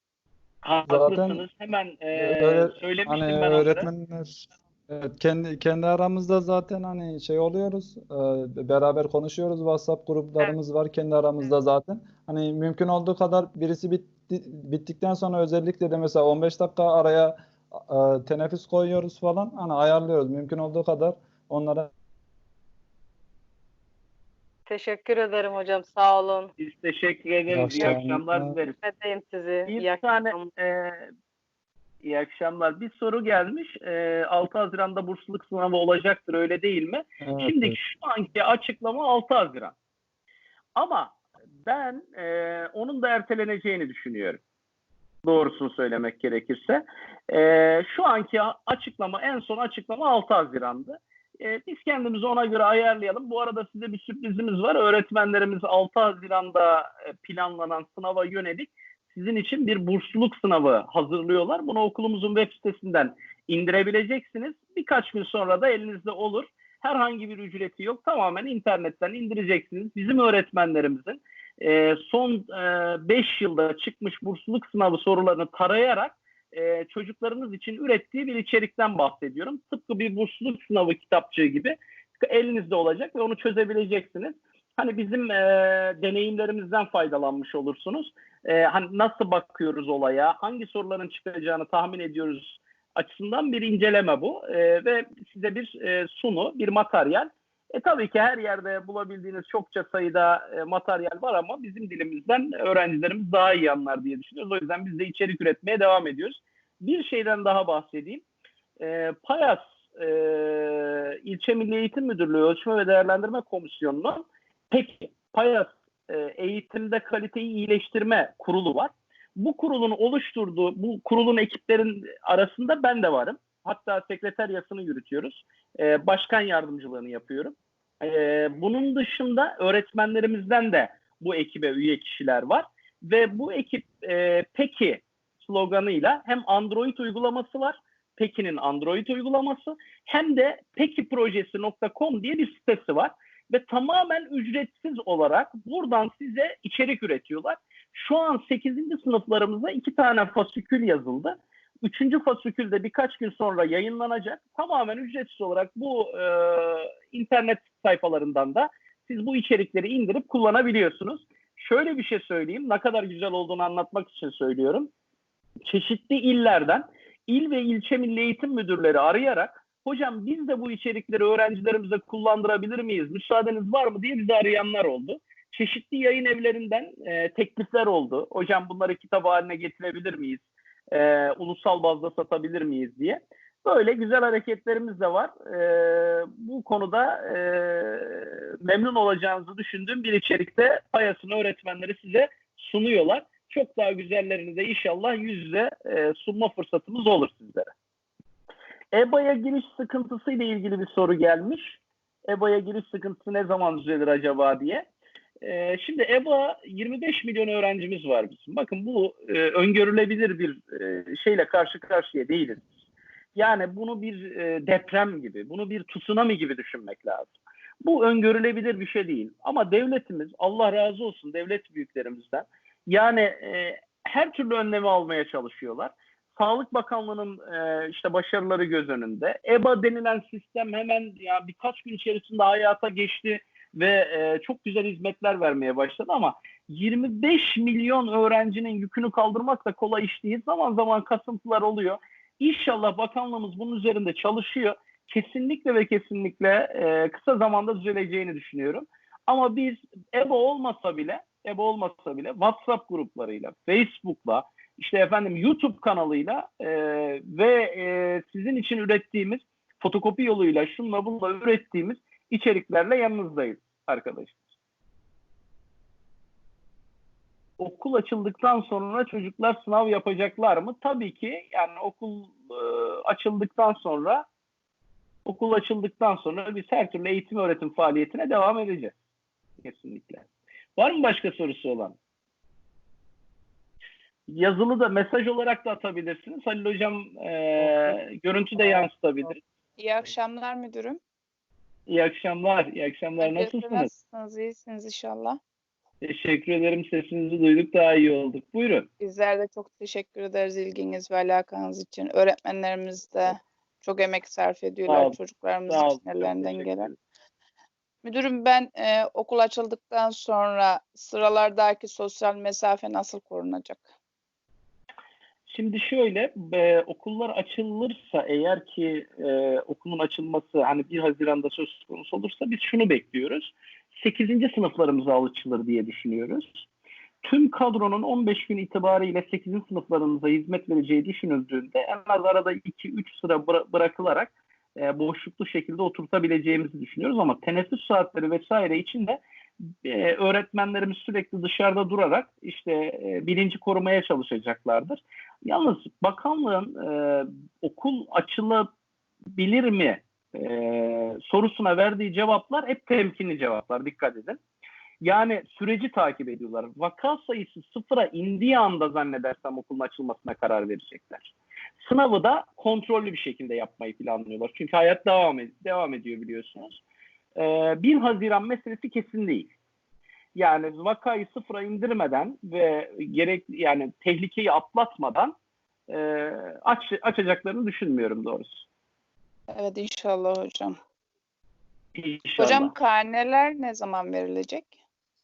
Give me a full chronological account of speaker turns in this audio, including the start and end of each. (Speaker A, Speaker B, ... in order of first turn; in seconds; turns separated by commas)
Speaker A: 0.6-3.9, Speaker B: 0.9-1.4, Speaker B: 2.1-21.9, Speaker C: 24.7-26.5, Speaker A: 26.6-28.8, Speaker B: 27.5-28.6, Speaker C: 28.8-30.5, Speaker A: 29.7-31.1, Speaker A: 32.0-39.7, Speaker B: 37.2-37.8, Speaker A: 40.8-44.4, Speaker A: 45.2-108.2, Speaker A: 108.8-164.9, Speaker A: 165.7-197.7, Speaker A: 198.9-204.9, Speaker A: 205.4-212.7, Speaker A: 213.3-264.4, Speaker A: 267.6-274.2, Speaker A: 275.2-278.9, Speaker A: 279.6-280.2, Speaker A: 280.8-281.9, Speaker A: 284.3-289.4, Speaker D: 289.8-291.0, Speaker A: 291.9-293.9, Speaker D: 293.2-295.4, Speaker A: 296.0-298.9, Speaker D: 299.0-306.9, Speaker A: 304.9-306.9, Speaker D: 308.0-313.9, Speaker A: 315.5-326.7, Speaker A: 327.2-348.7, Speaker A: 349.3-354.4, Speaker A: 355.0-366.8, Speaker A: 367.4-369.5, Speaker A: 370.3-375.3, Speaker A: 375.9-378.6, Speaker D: 379.5-380.8, Speaker A: 381.9-382.7, Speaker D: 382.4-384.7